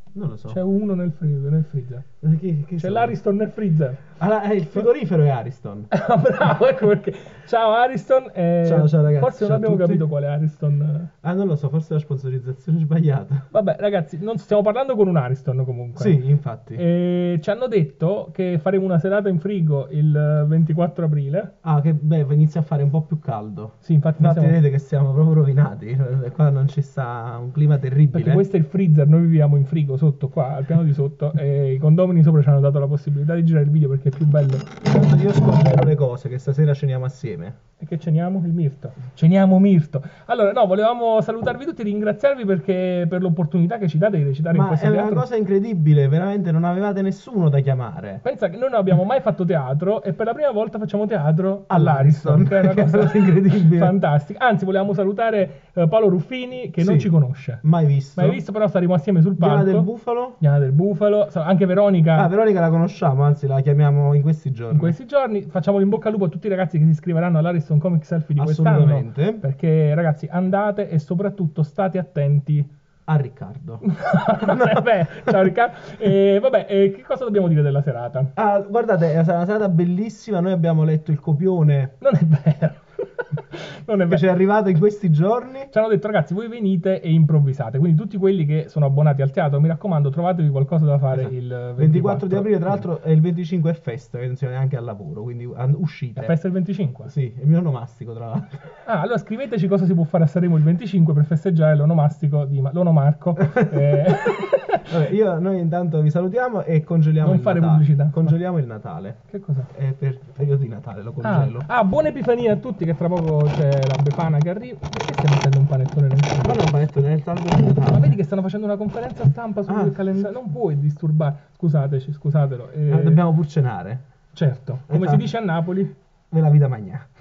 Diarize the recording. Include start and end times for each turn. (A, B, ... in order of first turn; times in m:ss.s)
0:00.1-0:00.6 A
0:00.5-0:02.0 B
0:02.2-0:03.2 A
0:02.8-0:04.0 B
0:04.2-0:05.9 A
0:05.9-0:11.1 B
0:08.6-0:10.0 A
0:11.2-0:13.5 A
0:13.5-0:16.2 B
0:16.0-0:16.8 A
0:16.8-0:21.5 B
0:21.6-0:28.4 A
0:23.8-0:24.6 B
0:28.1-0:34.7 B
0:34.8-0:37.6 A
0:37.8-0:45.2 B
0:44.5-0:48.2 A
0:48.2-0:57.6 B
0:51.7-0:54.0 A
0:56.8-0:57.1 A
0:57.6-0:58.4 A
0:58.2-0:59.9 B
0:59.4-1:00.4 A
1:00.4-1:02.3 B
1:02.2-1:05.0 A
1:04.7-1:12.7 B
1:08.4-1:09.4 A
1:13.1-1:13.8 A
1:13.8-1:18.3 B
1:14.4-1:15.4 A
1:18.4-1:21.9 A
1:22.0-1:24.2 B
1:24.1-1:25.7 A
1:25.7-1:32.9 B
1:31.1-1:36.4 A
1:36.2-1:37.1 B
1:37.1-1:38.6 A
1:38.8-1:44.9 B
1:43.5-1:44.2 A
1:44.9-1:49.2 A
1:47.2-1:48.4 B
1:49.3-1:49.7 B
1:49.7-1:51.7 A
1:51.2-1:56.6 B
1:56.4-1:58.2 A
1:57.9-2:03.2 B
1:59.7-2:00.3 A
2:02.9-2:04.0 A
2:04.3-2:05.9 B
2:04.9-2:05.3 A
2:06.3-2:07.1 A